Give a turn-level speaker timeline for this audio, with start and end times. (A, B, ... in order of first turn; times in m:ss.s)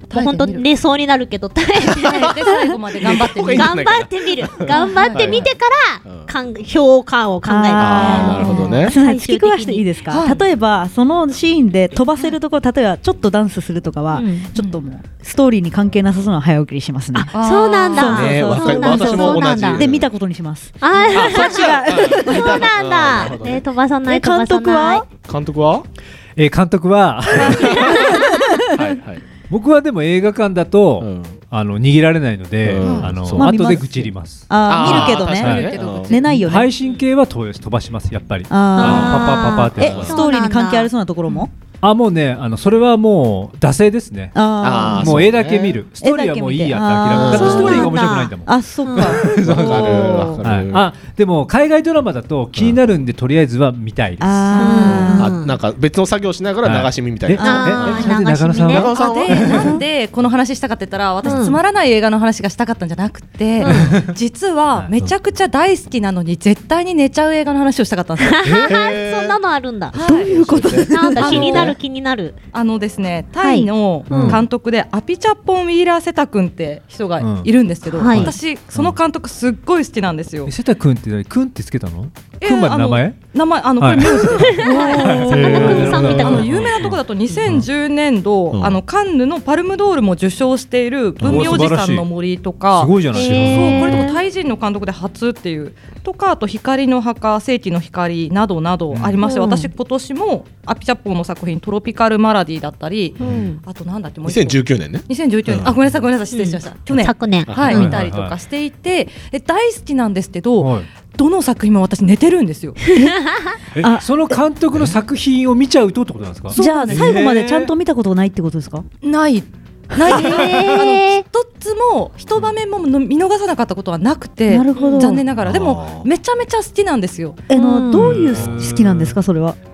0:00.1-0:02.8 A
0:00.1-0:00.6 B
0:02.0-0:02.4 C
0:02.0-0:03.8 B
0:03.0-0:06.3 C
0:03.5-0:09.9 A
0:04.8-0:05.1 B
0:07.4-0:17.3 D
0:07.8-0:09.0 C
0:10.1-0:10.4 B
0:14.1-0:14.5 A
0:17.3-0:18.2 B
0:17.3-0:19.8 A
0:17.9-0:22.6 D
0:18.0-0:20.1 C
0:20.8-0:25.0 A
0:21.1-0:23.6 C
0:24.1-0:25.0 D
0:25.2-0:25.8 C
0:26.4-0:27.9 E
0:27.5-0:28.2 C
0:27.9-0:28.5 D
0:28.7-0:29.2 C
0:29.5-0:34.5 E
0:31.0-0:31.4 C
0:32.6-0:33.5 C
0:32.8-0:33.1 B
0:33.3-0:36.7 D
0:34.6-0:36.3 C
0:34.7-0:36.5 B
0:35.4-0:35.7 E
0:36.3-0:40.1 E
0:38.5-0:41.5 D
0:38.7-0:40.9 A
0:38.9-0:39.1 C
0:39.8-0:40.2 C
0:41.8-0:44.3 E
0:44.3-0:45.4 D
0:44.6-0:45.8 C
0:44.9-0:48.6 E
0:46.0-0:50.4 D
0:47.1-0:47.9 C
0:47.4-0:49.2 A
0:49.2-0:50.9 C
0:49.5-0:50.3 B
0:50.4-0:54.7 E
0:54.2-0:55.3 D
0:54.6-0:55.6 A
0:54.7-0:59.6 C
0:56.6-0:59.6 E
0:57.4-0:59.8 A
0:58.9-1:08.4 B
1:01.2-1:01.6 A
1:03.6-1:04.0 A
1:03.8-1:04.1 E
1:04.8-1:05.1 E
1:08.2-1:10.0 A
1:08.4-1:09.4 C
1:09.9-1:11.7 C
1:09.9-1:10.4 B
1:10.2-1:11.7 D
1:10.9-1:12.4 A
1:11.2-1:11.8 B
1:12.5-1:20.5 B
1:13.4-1:14.4 A
1:14.1-1:14.4 E
1:17.2-1:17.5 E
1:17.8-1:18.4 A
1:18.1-1:19.0 E
1:20.4-1:23.2 E
1:22.4-1:52.9 B
1:23.8-1:27.7 E
1:24.1-1:26.6 A
1:28.5-1:28.8 C
1:31.2-1:32.1 E
1:32.7-1:34.1 E
1:33.1-1:34.2 A
1:38.9-1:39.2 E
1:39.2-1:39.7 A
1:43.2-1:43.5 C
1:43.2-1:43.6 A
1:44.2-1:45.8 C
1:46.3-1:47.9 A
1:47.5-1:47.8 C
1:47.7-1:48.3 E
1:50.6-1:50.9 E
1:53.0-1:53.5 A
1:53.8-1:57.7 E
1:53.8-1:54.4 D
1:56.5-1:57.2 B
1:56.6-1:58.8 D
1:59.0-2:07.4 B
2:00.1-2:00.4 D
2:00.1-2:01.2 A
2:04.5-2:05.2 D
2:05.4-2:05.8 C
2:07.5-2:09.6 D
2:07.5-2:08.2 A
2:08.0-2:09.2 E